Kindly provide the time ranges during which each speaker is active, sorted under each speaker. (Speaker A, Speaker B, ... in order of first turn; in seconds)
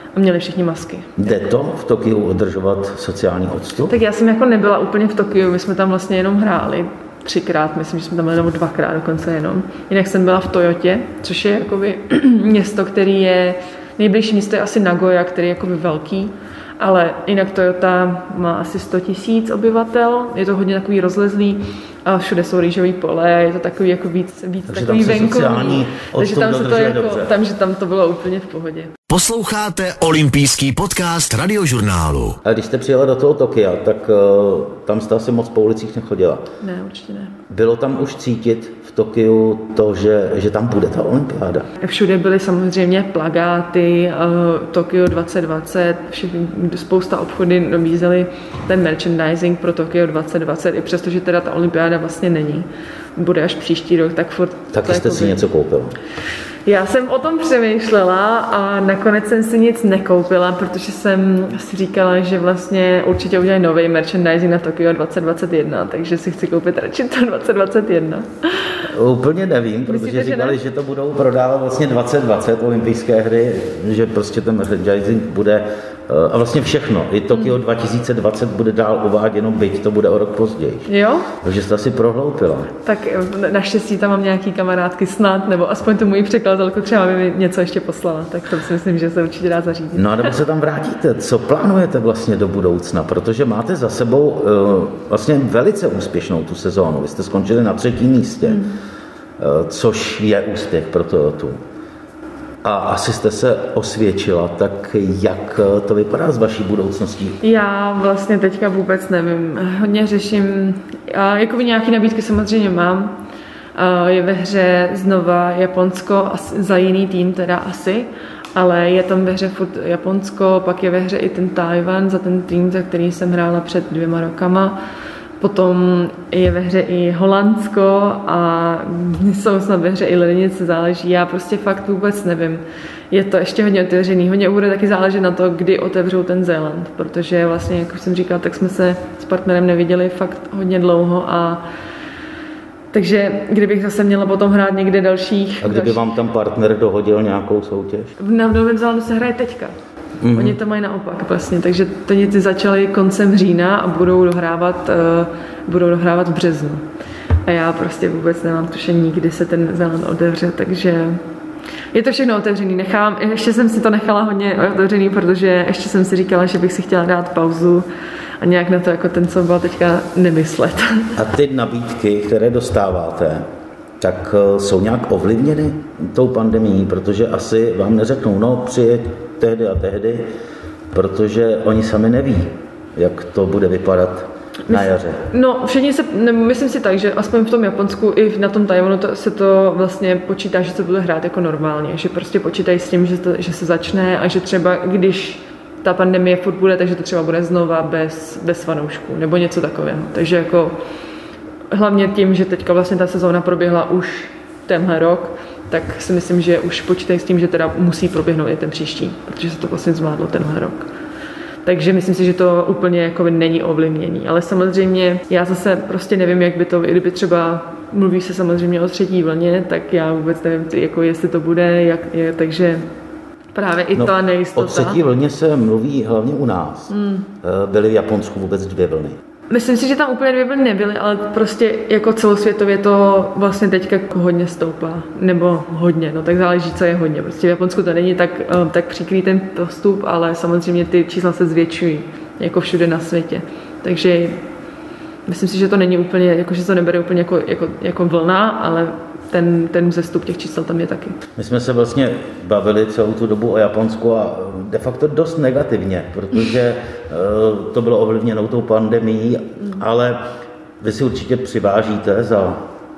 Speaker A: 0.1-1.2, 3.9-28.9, 36.6-37.4, 41.8-55.4, 56.7-68.8, 69.9-70.6, 80.9-81.3, 82.8-90.4, 98.5-98.8, 107.4-113.2, 113.8-124.8, 125.4-141.7, 142.9-146.1, 148.2-149.8, 150.3-156.8, 157.5-161.2, 161.9-167.9, 168.4-171.2, 184.7-200.8, 201.7-210.9, 211.7-222.9, 223.5-225.0, 226.9-227.3, 229.5-244.4, 245.3-251.2
Speaker B: 1.2-3.9, 24.7-27.3, 32.4-36.5, 37.5-41.7, 54.7-56.0, 68.9-82.7, 90.0-98.6, 99.4-101.6, 102.6-107.4, 145.6-148.1, 150.2-150.6, 171.2-173.4, 174.0-180.3, 180.9-185.2, 223.9-229.2, 251.4-260.3, 260.8-262.7
Speaker C: 29.1-32.4